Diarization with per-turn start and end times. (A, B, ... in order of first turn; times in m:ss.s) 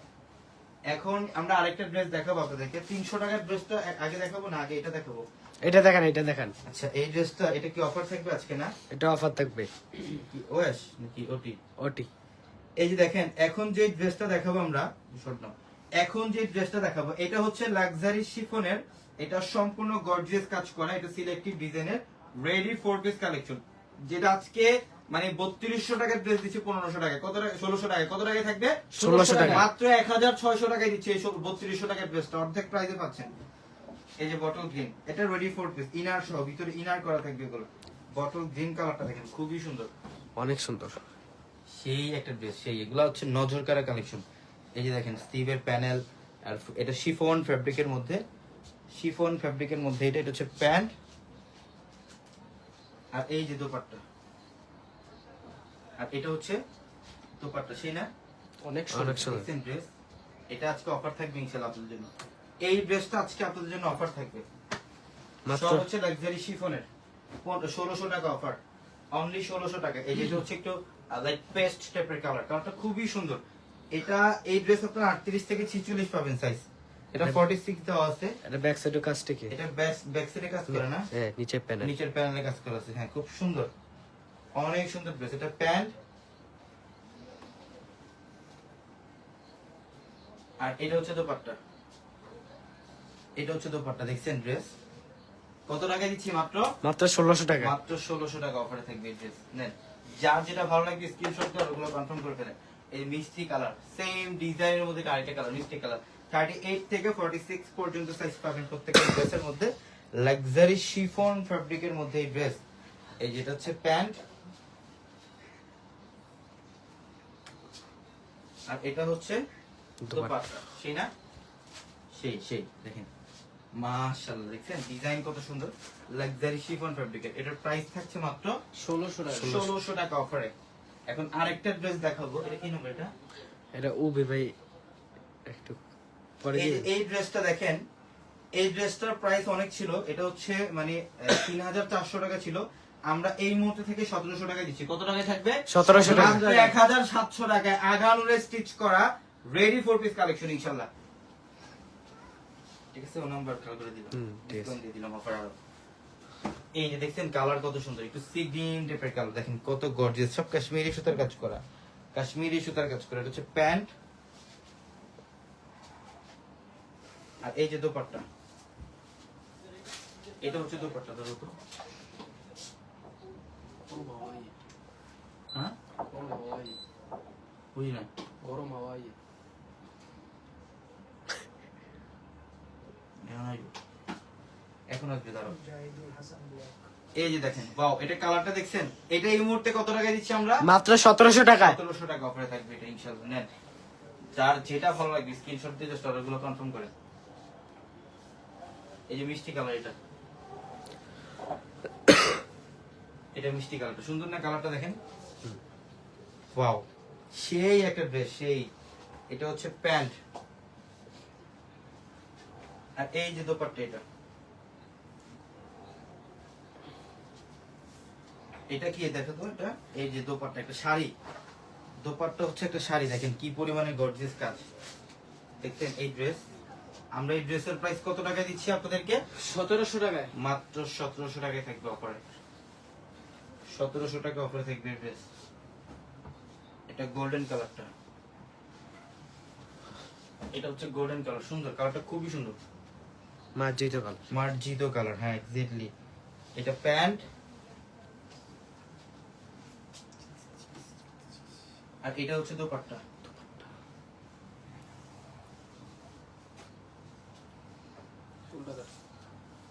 0:00.9-0:05.3 A
0:05.6-0:06.5 B
0:06.6-0:08.7 A
0:08.9-0:09.7 B
0:10.3-0:11.6 A
0:11.8-0:12.1 B
0:12.8-0:33.3 A
0:28.9-0:29.6 B
0:29.0-0:29.6 C
0:34.2-0:39.9 A
0:40.4-0:41.0 B
0:41.8-0:44.2 A
0:44.8-0:48.2 A
0:49.0-0:50.9 A
0:53.1-0:54.0 A
0:56.0-0:56.6 A
0:57.4-0:58.1 A
0:58.6-0:59.3 C
0:58.9-0:59.4 B
0:59.2-0:59.9 A
1:00.5-1:02.1 A
1:02.6-1:04.4 A
1:05.5-1:05.9 B
1:05.5-1:06.9 A
1:07.4-1:08.6 A
1:09.2-1:13.4 A
1:13.9-1:18.3 A
1:18.4-1:19.5 B
1:19.5-1:21.1 A
1:20.7-1:21.9 B
1:21.8-1:23.7 A
1:24.6-1:25.9 A
1:30.6-1:31.6 A
1:33.4-1:34.7 A
1:35.7-1:36.7 A
1:36.8-1:37.7 B
1:37.6-1:52.6 A
1:53.2-1:54.2 A
1:58.7-1:59.4 A
2:00.0-2:00.4 B
2:00.1-2:01.1 A
2:02.2-2:03.1 A
2:03.8-2:08.6 A
2:08.8-2:09.7 C
2:09.3-2:09.7 B
2:09.4-2:10.5 A
2:11.1-2:13.1 A
2:13.7-2:14.6 B
2:15.5-2:15.8 B
2:16.4-2:16.9 B
2:16.5-2:17.8 A
2:18.6-2:30.9 A
2:25.7-2:26.5 B
2:25.9-2:26.7 C
2:32.9-2:35.6 A
2:34.1-2:34.8 B
2:36.8-2:41.6 A
2:42.2-2:43.9 A
2:47.4-2:48.2 A
2:50.4-2:51.5 A
2:53.9-2:54.5 C
2:56.1-2:56.8 C
2:57.8-2:58.1 A
2:58.4-2:59.2 C
3:03.2-3:03.7 A
3:04.9-3:05.6 A
3:05.8-3:06.2 C
3:07.2-3:10.6 A
3:10.6-3:11.8 B
3:11.6-3:13.5 A
3:14.4-3:16.9 A
3:19.1-3:20.0 A
3:23.3-3:25.0 A
3:26.6-3:28.7 A
3:29.3-3:30.2 A
3:33.0-3:34.0 A
3:38.7-3:41.1 A
3:42.0-3:44.6 A
3:45.6-3:46.4 A
3:47.2-3:49.2 A
3:49.4-3:50.3 C
3:50.4-3:52.2 A
3:53.7-3:55.2 A
3:56.9-3:57.9 A
4:00.5-4:02.6 A
4:03.6-4:04.2 B
4:04.3-4:05.9 A
4:06.6-4:07.2 A
4:12.0-4:13.0 A
4:18.5-4:18.9 C